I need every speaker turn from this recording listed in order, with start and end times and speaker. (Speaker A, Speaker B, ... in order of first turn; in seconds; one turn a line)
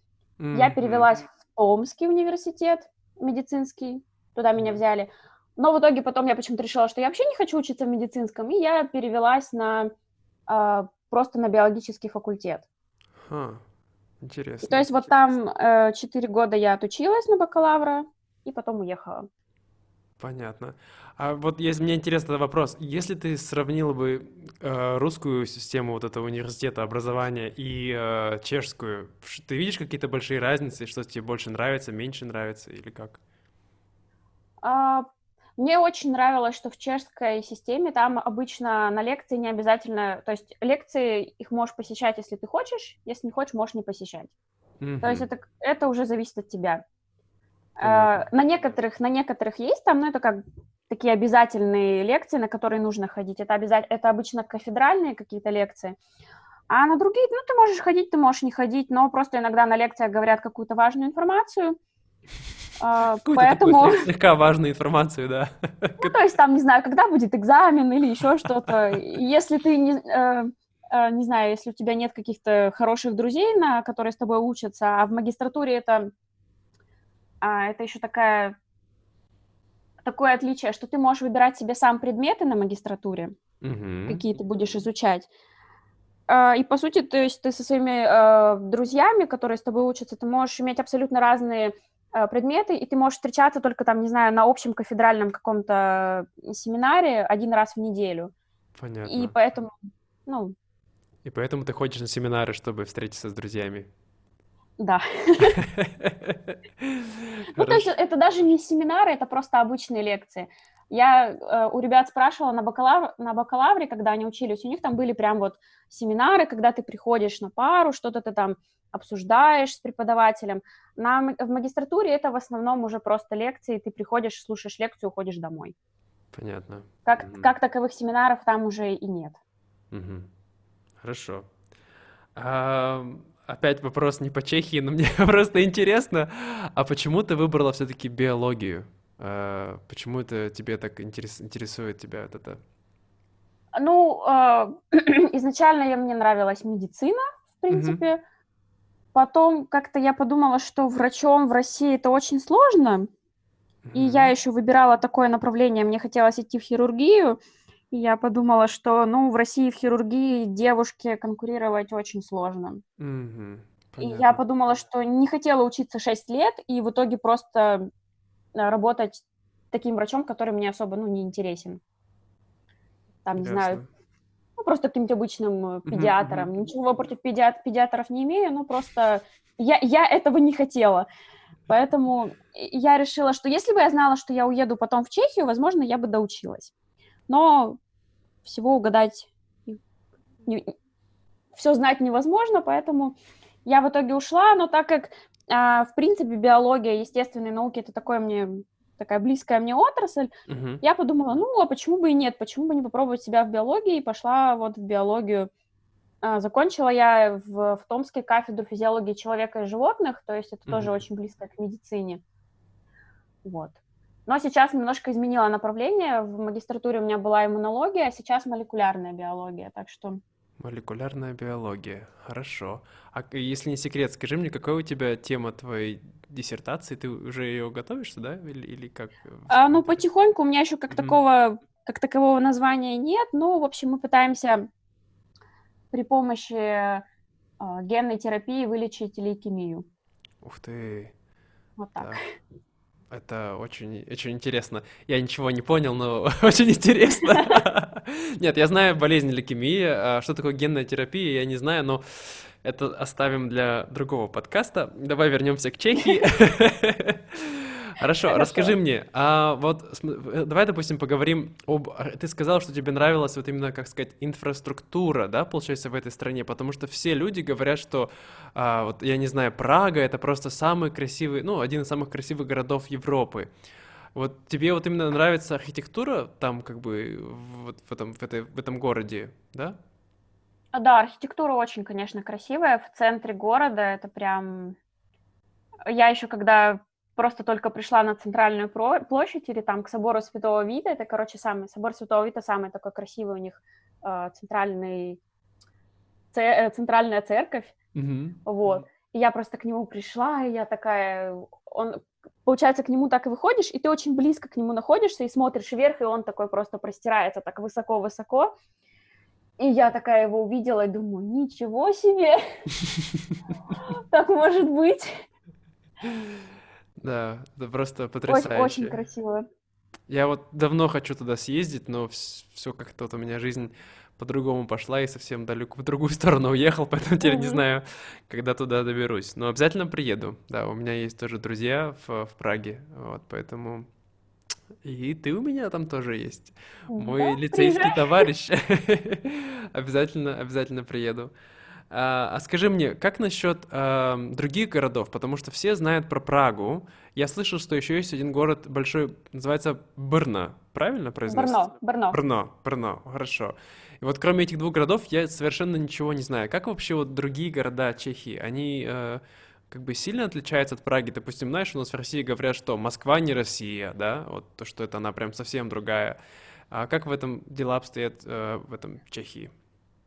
Speaker A: 0.4-1.1
Speaker B: 0.5-9.9
Speaker B: 10.5-12.7
Speaker A: 13.2-13.6
Speaker A: 14.2-15.1
Speaker B: 14.6-19.3
Speaker A: 20.2-33.2
Speaker B: 34.6-44.3
Speaker A: 44.8-45.2
Speaker B: 45.0-46.8
Speaker B: 47.8-56.0
Speaker A: 47.8-48.2
Speaker B: 56.7-61.8
Speaker B: 62.8-64.1
Speaker A: 63.2-66.1
Speaker B: 66.0-76.1
Speaker B: 77.4-78.5
Speaker B: 80.0-83.3
Speaker A: 83.6-84.2
Speaker B: 84.1-85.3
Speaker B: 86.3-98.3
Speaker A: 98.8-99.3
Speaker B: 99.0-99.7
Speaker B: 100.2-100.5
Speaker A: 101.2-103.9
Speaker B: 104.8-105.6
Speaker A: 105.6-107.9
Speaker B: 107.5-125.7
Speaker A: 126.3-127.5
Speaker B: 127.0-129.4
Speaker A: 129.9-130.3
Speaker A: 131.0-131.5
Speaker A: 132.3-142.6
Speaker B: 143.7-148.2
Speaker A: 147.7-148.0
Speaker B: 149.1-153.1
Speaker A: 153.8-154.3
Speaker B: 153.9-157.4
Speaker B: 157.9-162.8
Speaker A: 163.0-164.4
Speaker B: 164.0-167.9
Speaker B: 168.6-171.8
Speaker B: 173.2-173.8
Speaker A: 173.4-173.9
Speaker B: 174.6-181.1
Speaker A: 175.9-176.5
Speaker B: 181.7-186.7
Speaker B: 187.3-187.8
Speaker B: 188.4-189.8
Speaker B: 190.4-190.7
Speaker B: 191.6-200.3
Speaker A: 200.5-200.8
Speaker B: 200.8-205.5
Speaker B: 206.2-212.2
Speaker A: 210.7-211.0
Speaker B: 213.4-220.2
Speaker A: 220.6-230.0
Speaker B: 229.5-234.7
Speaker A: 230.9-231.2
Speaker B: 235.9-237.0
Speaker B: 237.6-239.8
Speaker A: 240.4-241.1
Speaker B: 241.8-242.2
Speaker A: 243.1-273.5
Speaker B: 258.3-258.7
Speaker A: 274.1-279.8
Speaker B: 280.7-284.8
Speaker B: 285.9-295.2
Speaker B: 296.3-297.7
Speaker A: 297.9-298.8
Speaker B: 298.4-308.5
Speaker B: 309.6-312.4
Speaker A: 312.9-313.2
Speaker B: 313.7-315.2
Speaker A: 317.0-319.0
Speaker B: 318.3-319.5
Speaker A: 320.1-333.9
Speaker B: 327.2-327.6
Speaker A: 334.8-341.3
Speaker B: 336.9-338.3
Speaker A: 341.9-366.2
Speaker B: 351.3-352.2
Speaker A: 366.7-369.5